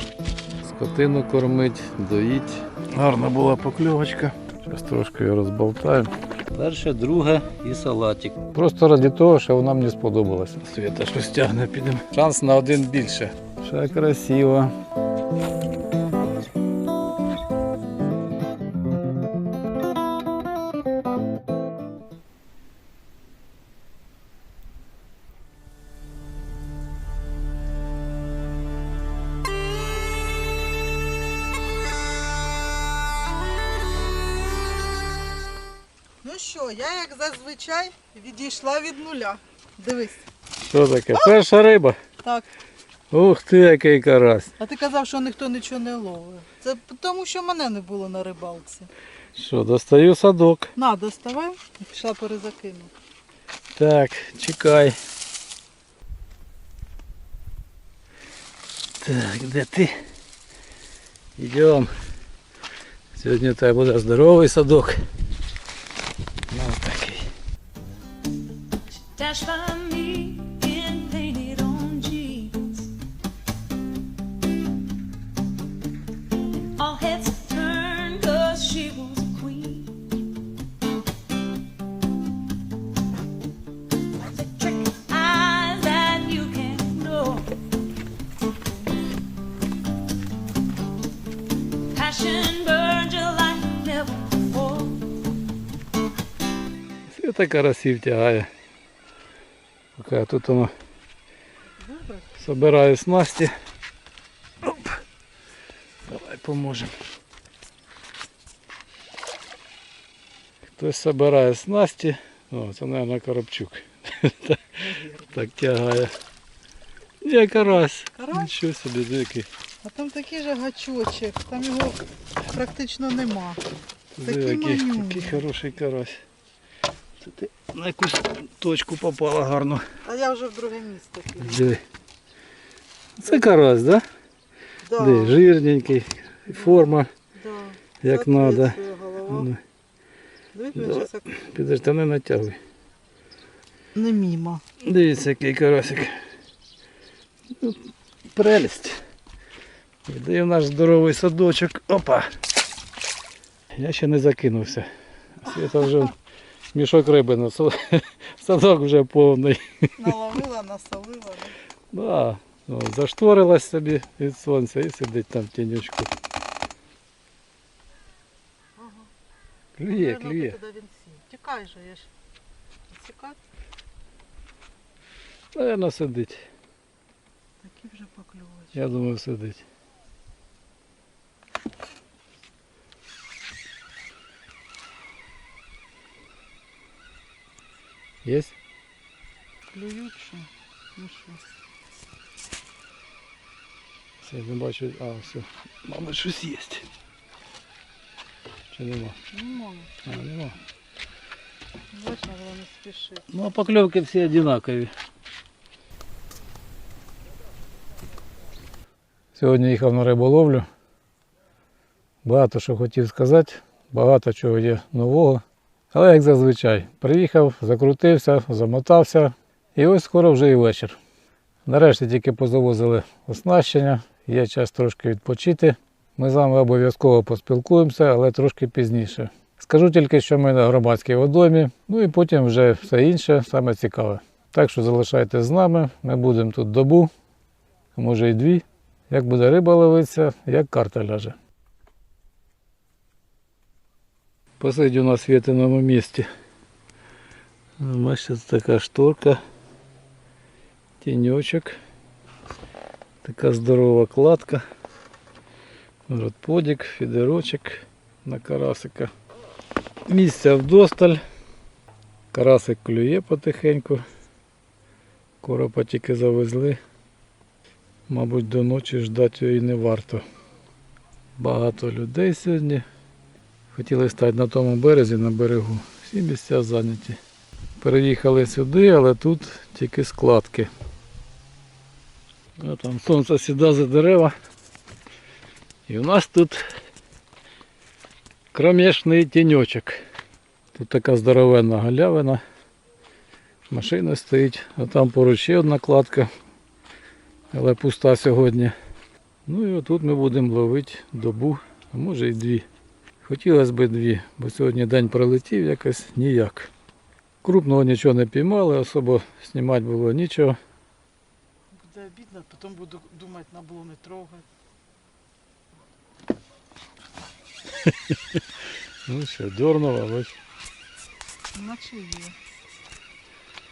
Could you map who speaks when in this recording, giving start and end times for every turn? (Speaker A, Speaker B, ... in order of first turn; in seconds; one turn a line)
Speaker A: 0.6-14.8
Speaker B: 36.2-40.3
Speaker A: 40.6-42.0
Speaker A: 43.1-44.5
Speaker B: 44.6-48.9
Speaker A: 49.4-50.7
Speaker B: 50.8-52.9
Speaker A: 53.8-55.0
Speaker A: 59.0-60.0
Speaker A: 61.4-61.9
Speaker A: 63.1-65.0
Speaker A: 66.5-67.3
Speaker C: 68.9-72.9
Speaker C: 76.8-80.2
Speaker C: 84.2-87.5
Speaker C: 91.9-95.1
Speaker A: 97.1-98.5
Speaker A: 100.0-100.7
Speaker B: 101.8-102.4
Speaker A: 102.4-103.5
Speaker A: 104.6-104.9
Speaker A: 106.0-107.0
Speaker A: 110.8-114.7
Speaker B: 114.8-115.4
Speaker A: 115.3-116.1
Speaker A: 117.2-119.5
Speaker B: 117.5-118.5
Speaker B: 119.8-123.6
Speaker A: 124.1-126.2
Speaker B: 124.2-125.5
Speaker A: 127.2-129.9
Speaker B: 130.0-131.7
Speaker A: 131.4-131.8
Speaker A: 133.2-134.1
Speaker B: 134.8-135.4
Speaker A: 135.0-137.1
Speaker B: 136.5-139.5
Speaker A: 138.0-139.6
Speaker B: 140.5-141.3
Speaker A: 140.8-142.6
Speaker B: 143.9-144.6
Speaker A: 144.8-146.2
Speaker A: 147.5-149.0
Speaker A: 150.1-152.3
Speaker A: 153.7-156.2
Speaker A: 156.7-160.2
Speaker B: 160.0-161.6
Speaker A: 161.9-166.1
Speaker B: 168.8-169.1
Speaker A: 169.8-170.6
Speaker B: 169.9-172.1
Speaker B: 172.9-173.4
Speaker A: 175.5-176.5
Speaker B: 177.6-179.0
Speaker A: 178.7-179.6
Speaker A: 188.2-188.6
Speaker B: 189.7-191.4
Speaker A: 194.2-196.9
Speaker A: 198.7-199.2
Speaker B: 199.3-199.9
Speaker A: 200.1-200.6
Speaker B: 201.9-203.3
Speaker A: 203.3-204.9
Speaker A: 209.3-210.7
Speaker A: 212.2-221.0
Speaker A: 221.7-237.1
Speaker A: 237.9-241.4
Speaker A: 244.6-246.3
Speaker A: 247.8-249.4
Speaker A: 251.0-251.8
Speaker A: 253.2-254.7
Speaker A: 256.1-259.1
Speaker A: 260.1-261.2
Speaker A: 262.3-264.0
Speaker A: 265.4-266.8
Speaker A: 268.1-270.2
Speaker A: 271.4-272.9
Speaker A: 273.7-277.2
Speaker A: 277.8-280.7
Speaker A: 282.6-284.3
Speaker A: 285.9-286.6
Speaker A: 288.5-290.1
Speaker A: 290.7-292.4
Speaker A: 293.7-296.3
Speaker A: 297.5-298.8
Speaker A: 299.5-302.7
Speaker A: 303.2-306.7
Speaker A: 307.4-310.6
Speaker B: 311.7-314.5
Speaker A: 317.9-318.4
Speaker A: 319.1-320.4
Speaker B: 321.5-322.4